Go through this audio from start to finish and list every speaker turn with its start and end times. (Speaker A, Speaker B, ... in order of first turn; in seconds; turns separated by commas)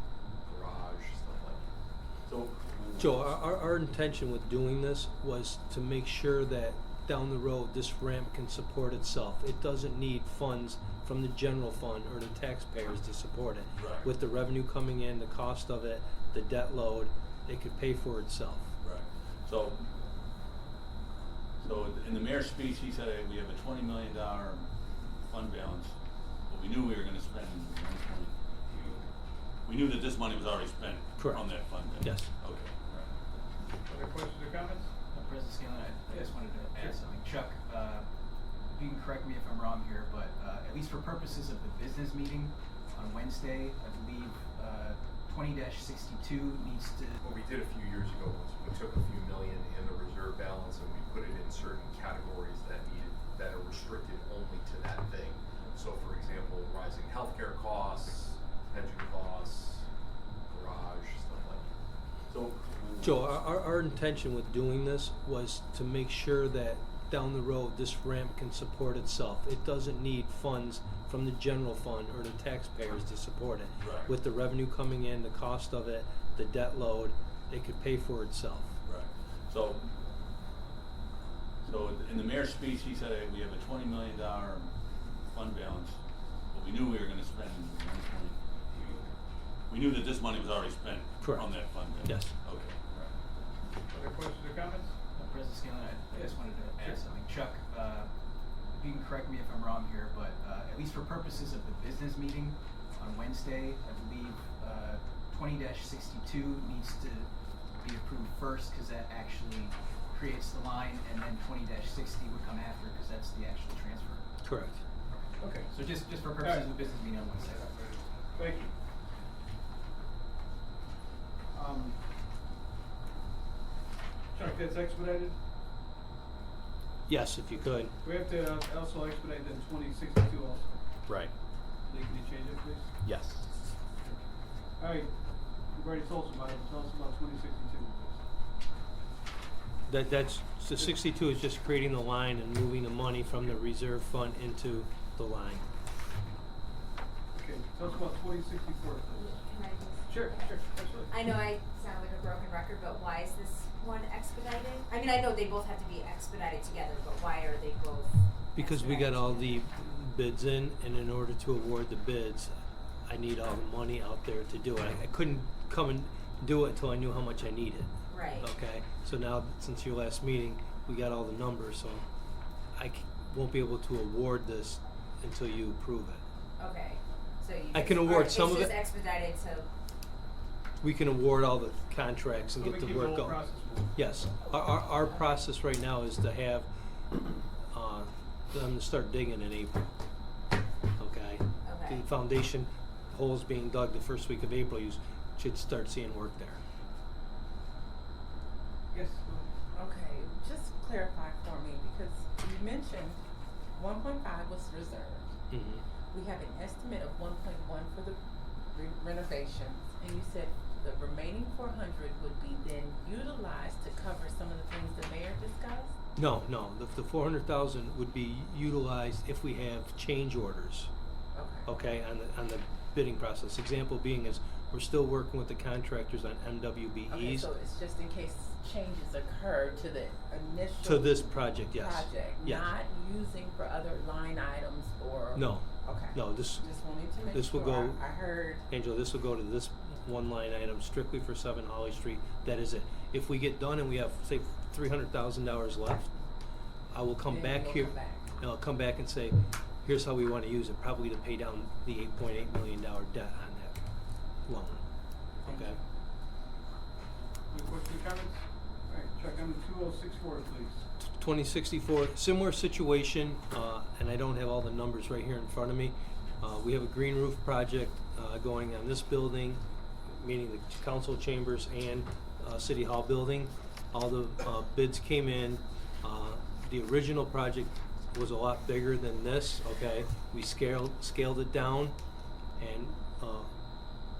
Speaker A: 0.5-1.6, Speaker B: 2.3-3.4, Speaker C: 3.0-18.7, Speaker B: 13.8-14.1, Speaker B: 18.8-19.9, Speaker B: 21.6-24.7, Speaker B: 25.3-25.9, Speaker B: 26.5-29.0, Speaker B: 29.7-32.8, Speaker C: 31.2-31.4, Speaker C: 32.0-32.3, Speaker D: 33.9-34.9, Speaker E: 35.1-38.1, Speaker D: 36.1-36.9, Speaker E: 38.7-47.2, Speaker A: 47.2-59.9, Speaker A: 60.5-61.7, Speaker B: 62.3-63.4, Speaker C: 63.0-78.8, Speaker B: 73.8-74.1, Speaker B: 78.9-79.9, Speaker B: 81.6-84.7, Speaker B: 85.3-86.0, Speaker B: 86.5-89.0, Speaker B: 89.7-92.8, Speaker C: 91.2-91.5, Speaker C: 92.0-92.3, Speaker D: 93.9-95.0, Speaker E: 95.2-98.1, Speaker E: 98.7-107.3, Speaker E: 107.8-114.2, Speaker C: 114.4-114.8, Speaker E: 115.1-117.7, Speaker D: 115.4-115.8, Speaker D: 116.3-116.8, Speaker D: 117.4-118.7, Speaker D: 121.5-122.0, Speaker D: 124.3-125.4, Speaker C: 127.1-128.0, Speaker D: 128.0-130.8, Speaker D: 131.9-132.9, Speaker A: 133.0-133.4, Speaker D: 134.8-135.1, Speaker D: 135.7-138.2, Speaker C: 139.9-145.7, Speaker D: 147.3-149.4, Speaker F: 149.2-150.6, Speaker D: 150.1-151.1, Speaker F: 151.1-159.6, Speaker C: 158.6-162.5, Speaker C: 163.1-172.1, Speaker F: 168.1-168.5, Speaker C: 172.8-176.2, Speaker F: 176.6-179.7, Speaker C: 177.7-178.8, Speaker C: 180.8-183.4, Speaker D: 182.6-183.9, Speaker C: 183.9-186.7, Speaker F: 184.5-184.8, Speaker C: 187.7-189.9, Speaker C: 191.0-196.6, Speaker F: 191.7-192.0, Speaker D: 198.9-199.5, Speaker G: 199.7-203.2, Speaker G: 203.7-205.3, Speaker C: 205.5-205.8, Speaker G: 206.1-208.2, Speaker G: 208.7-215.9, Speaker C: 216.2-220.9, Speaker G: 221.3-221.7, Speaker C: 221.7-227.5, Speaker G: 227.1-238.7, Speaker C: 230.8-232.7, Speaker C: 235.3-236.7, Speaker C: 237.3-238.0, Speaker C: 238.7-246.1, Speaker C: 246.9-253.8, Speaker G: 247.2-248.3, Speaker C: 254.5-254.8, Speaker C: 255.4-255.8, Speaker D: 255.5-255.7, Speaker D: 257.5-260.8, Speaker C: 261.0-282.0, Speaker C: 282.6-283.5